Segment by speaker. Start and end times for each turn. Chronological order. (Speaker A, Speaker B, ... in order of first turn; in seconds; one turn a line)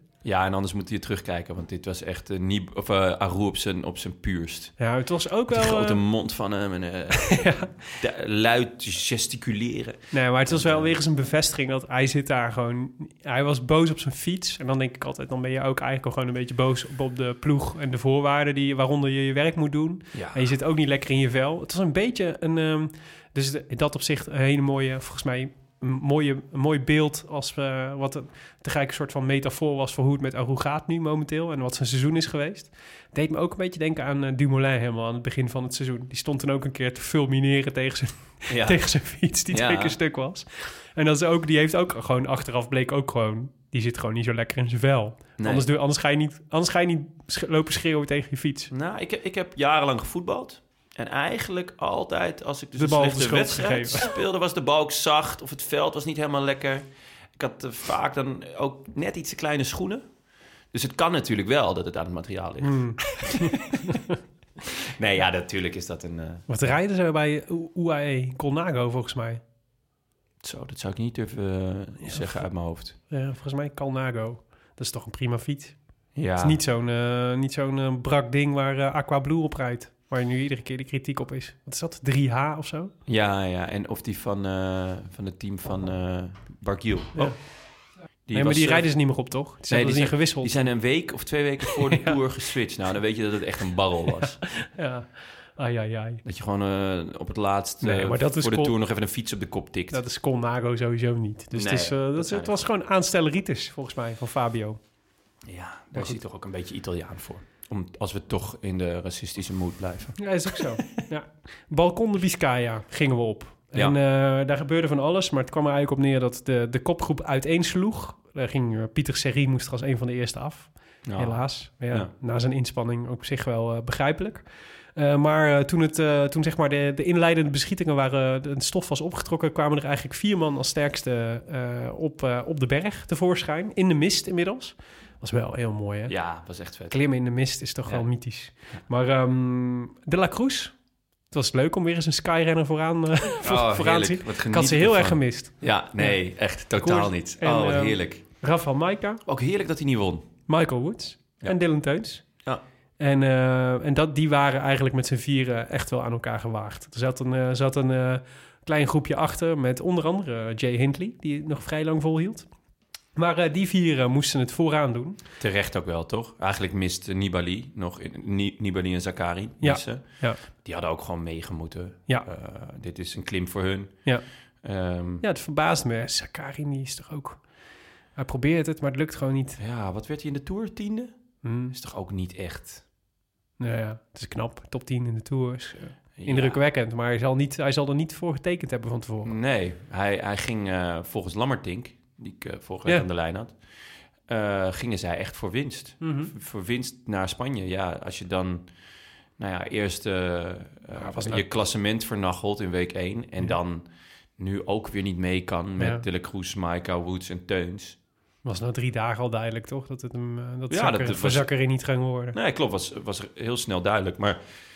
Speaker A: 0.2-4.8
Speaker B: 4.8-6.0
Speaker A: 5.5-10.9
Speaker B: 7.2-7.8
Speaker B: 10.1-48.7
Speaker A: 20.1-20.5
Speaker A: 38.5-38.9
Speaker A: 39.5-40.0
Speaker A: 45.4-45.7
Speaker A: 48.7-60.0
Speaker B: 52.8-54.1
Speaker A: 60.7-64.0
Speaker B: 62.6-64.1
Speaker A: 64.7-66.5
Speaker B: 66.5-69.4
Speaker A: 70.4-73.0
Speaker B: 72.0-82.9
Speaker A: 76.1-76.6
Speaker A: 83.1-87.5
Speaker B: 87.1-87.4
Speaker A: 88.3-94.4
Speaker B: 88.3-90.6
Speaker B: 91.8-92.2
Speaker B: 94.6-96.2
Speaker A: 96.2-100.0
Speaker B: 97.8-98.7
Speaker B: 99.9-104.8
Speaker A: 101.5-102.6
Speaker A: 105.4-110.9
Speaker B: 110.2-136.3
Speaker A: 121.0-122.1
Speaker A: 136.1-137.0
Speaker B: 136.9-140.8
Speaker B: 141.3-146.2
Speaker A: 143.4-148.2
Speaker B: 146.7-149.2
Speaker A: 149.3-150.3
Speaker B: 150.5-152.2
Speaker B: 153.0-162.5
Speaker B: 163.1-165.2
Speaker A: 165.4-174.0
Speaker B: 169.6-170.4
Speaker A: 174.6-175.2
Speaker B: 175.2-177.5
Speaker B: 178.2-179.6
Speaker A: 179.6-181.1
Speaker B: 181.4-181.7
Speaker A: 181.7-182.8
Speaker B: 183.6-189.3
Speaker A: 186.2-186.6
Speaker A: 189.2-193.6
Speaker A: 194.3-198.7
Speaker B: 196.0-196.3
Speaker A: 199.4-203.9
Speaker B: 200.9-201.4
Speaker A: 204.4-208.0
Speaker B: 205.8-206.1
Speaker B: 208.4-212.4
Speaker A: 210.7-211.5
Speaker A: 212.3-214.4